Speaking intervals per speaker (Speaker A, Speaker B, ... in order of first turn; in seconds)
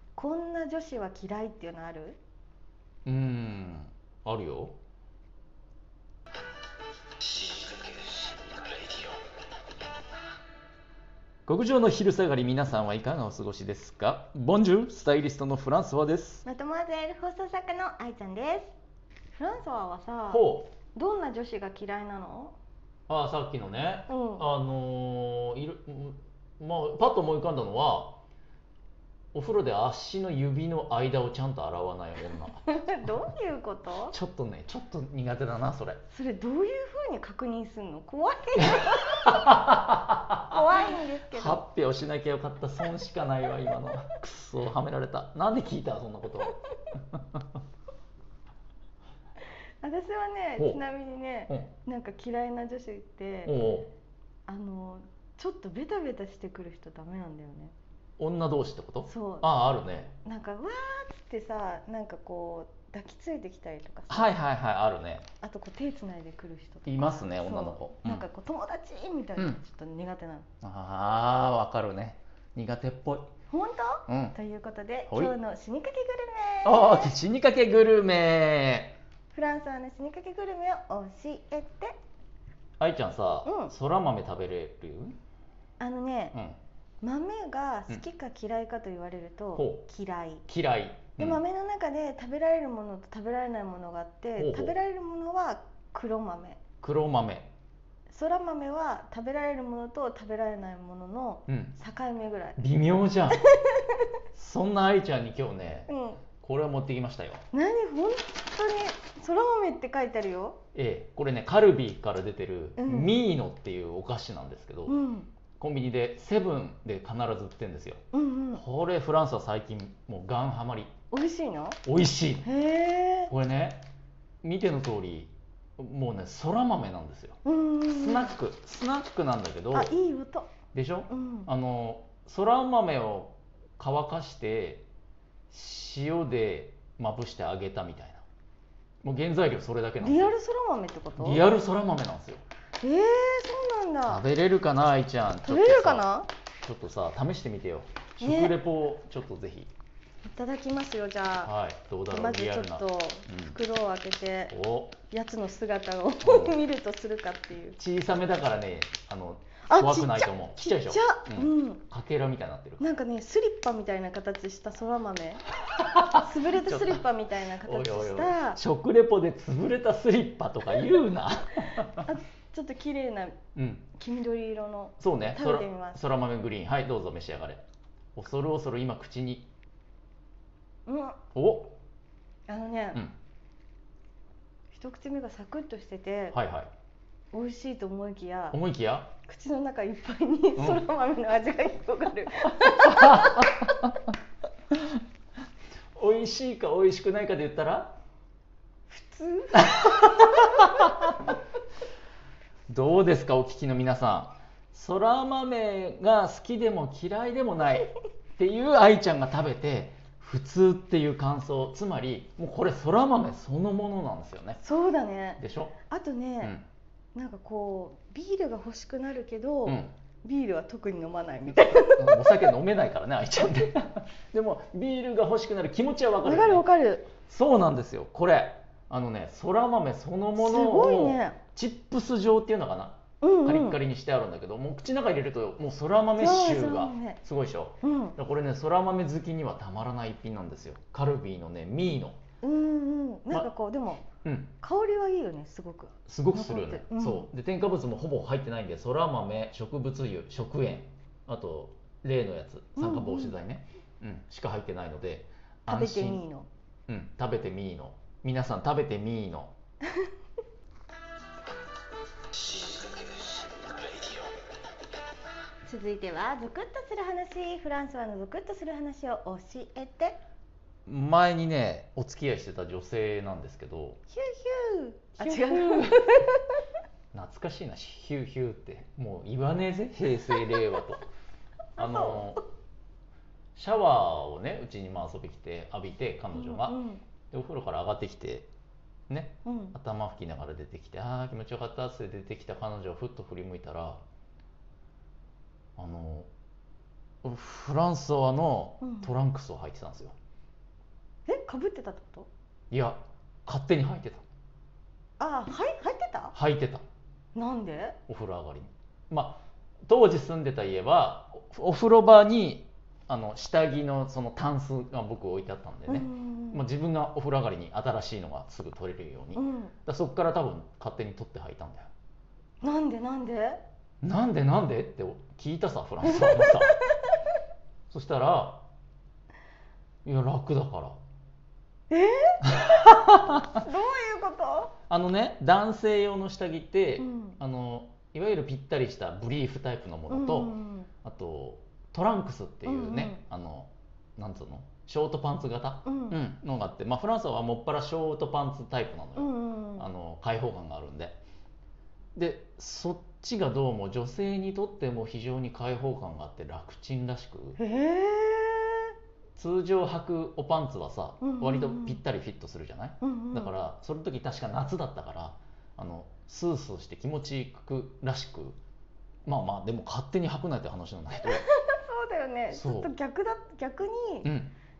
Speaker A: 0.1-2.2, 16.4-18.7, 19.4-22.5, 24.1-24.4, 32.6-34.1, 36.1-39.7, 40.4-41.6, 49.8-53.5, 54.5-57.7, 59.0-59.5, 60.2-64.3, 65.4-70.5, 73.5-77.1, 79.3-82.0, 83.4-83.7, 85.8-86.3, 87.0-90.4, 91.2-96.6, 98.1-102.6, 103.4-104.1, 105.9-106.2, 107.5-110.6, 112.8-113.1, 114.9-115.3, 118.1-118.6, 121.1-121.8, 122.4-123.3, 127.4-128.3, 129.7-130.5, 131.1-131.5, 140.0-141.4, 142.8-144.2, 145.5-146.3, 148.2-148.5, 150.2-151.5, 152.1-157.8, 159.7-161.8, 162.8-165.4, 166.1-168.6, 171.8-173.4, 173.9-176.0, 180.8-181.2, 182.5-183.0, 184.7-186.4, 187.3-188.6, 189.2-193.7, 198.9-200.9, 214.6-216.5, 217.1-222.5, 226.2-227.1, 230.4-231.4, 233.2-233.8, 236.2-237.2, 237.8-238.2, 242.4-244.1, 244.6-247.3, 252.8-253.3, 255.7-256.5, 265.6-270.2, 274.1-276.4, 281.8-282.4, 286.3-287.0, 289.4-289.7, 298.8-299.1, 301.3-302.3, 305.2-306.3, 307.3-308.0, 315.9-316.6, 319.3-319.7, 322.6-323.6, 326.1-327.1, 331.9-332.4, 333.4-334.7, 337.0-337.4, 340.1-340.9, 342.6-343.2, 345.8-346.2, 349.1-349.9, 357.6-358.9, 361.2-362.0, 363.0-363.5, 371.3-374.3
Speaker B: 3.0-4.8, 11.4-16.4, 20.3-20.7, 23.1-28.2, 29.3-32.7, 34.1-36.0, 38.6-46.5, 47.1-47.4, 53.5-53.9, 58.2-60.1, 64.1-65.2, 66.8-68.2, 70.6-73.3, 74.1-74.3, 76.6-79.0, 82.8-85.2, 89.5-89.8, 90.5-91.4, 94.4-94.8, 96.8-97.5, 101.5-101.7, 102.6-103.4, 104.3-105.9, 106.4-107.4, 110.7-115.0, 115.6-118.0, 118.5-120.9, 121.8-122.5, 123.3-123.8, 124.4-129.9, 130.7-134.8, 135.5-138.2, 139.0-140.3, 141.2-142.4, 144.1-146.1, 146.6-149.7, 151.4-153.6, 154.5-155.0, 156.2-156.6, 157.8-162.8, 165.8-167.0, 167.6-172.1, 173.6-173.9, 175.0-177.6, 178.1-179.5, 181.3-181.7, 186.3-186.7, 188.5-189.1, 190.6-190.8, 192.7-193.9, 194.7-195.0, 195.9-198.0, 199.5-201.3, 202.7-214.6, 215.4-215.8, 219.7-219.9, 221.5-226.6, 227.2-242.2, 244.2-244.5, 246.1-256.2, 256.9-259.5, 270.9-274.0, 275.2-275.9, 277.1-281.0, 281.8-282.4, 283.6-286.8, 287.3-288.5, 289.1-294.0, 295.8-296.3, 297.2-300.1, 302.7-304.2, 306.3-306.8, 308.1-321.9, 324.0-326.8, 327.9-328.6, 330.0-331.0, 332.4-333.5, 334.9-340.5, 341.0-351.2, 352.1-357.6, 359.4-368.6, 369.2-371.4, 372.5-372.9, 374.2-374.5